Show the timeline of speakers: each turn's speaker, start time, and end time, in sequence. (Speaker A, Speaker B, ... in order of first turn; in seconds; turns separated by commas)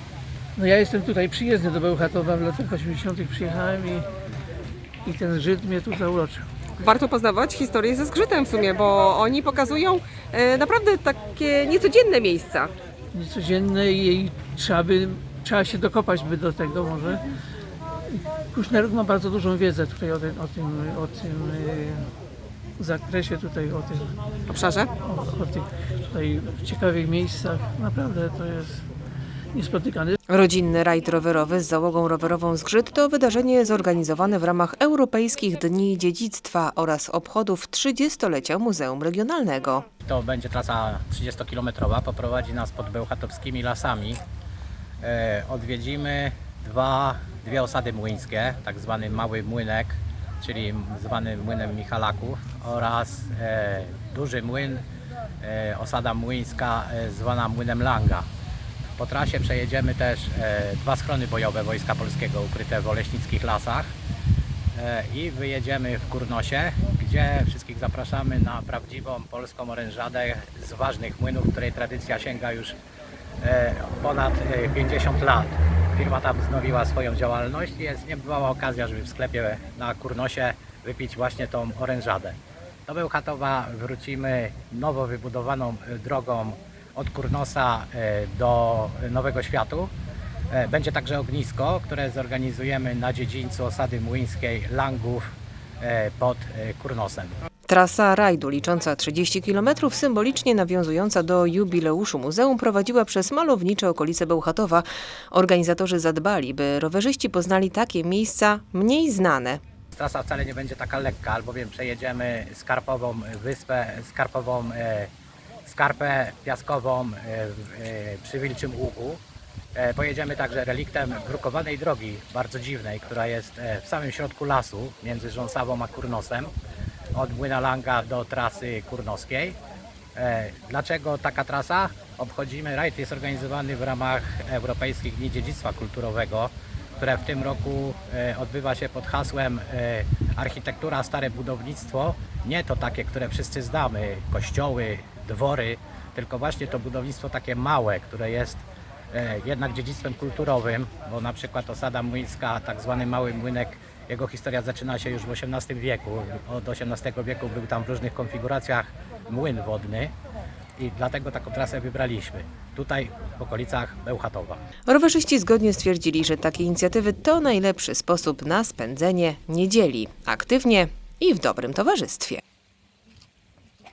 Speaker A: 0.5-4.0, Speaker A: 5.0-6.5, Speaker B: 6.8-12.7, Speaker A: 13.1-17.2, Speaker A: 18.5-22.1, Speaker A: 22.8-24.1, Speaker B: 24.5-24.9, Speaker A: 25.0-28.8, Speaker A: 29.5-30.2, Speaker C: 30.3-39.9, Speaker D: 40.0-44.2, Speaker D: 45.0-54.8, Speaker D: 55.4-58.2, Speaker D: 59.0-63.9, Speaker D: 64.7-72.8, Speaker D: 73.4-89.9, Speaker D: 90.5-95.3, Speaker D: 95.8-97.3, Speaker C: 97.7-109.6, Speaker D: 109.9-115.1, Speaker D: 115.6-119.2, Speaker D: 119.7-126.5, Speaker D: 127.1-129.6, Speaker D: 130.2-160.1, Speaker D: 160.8-164.6, Speaker C: 164.8-172.4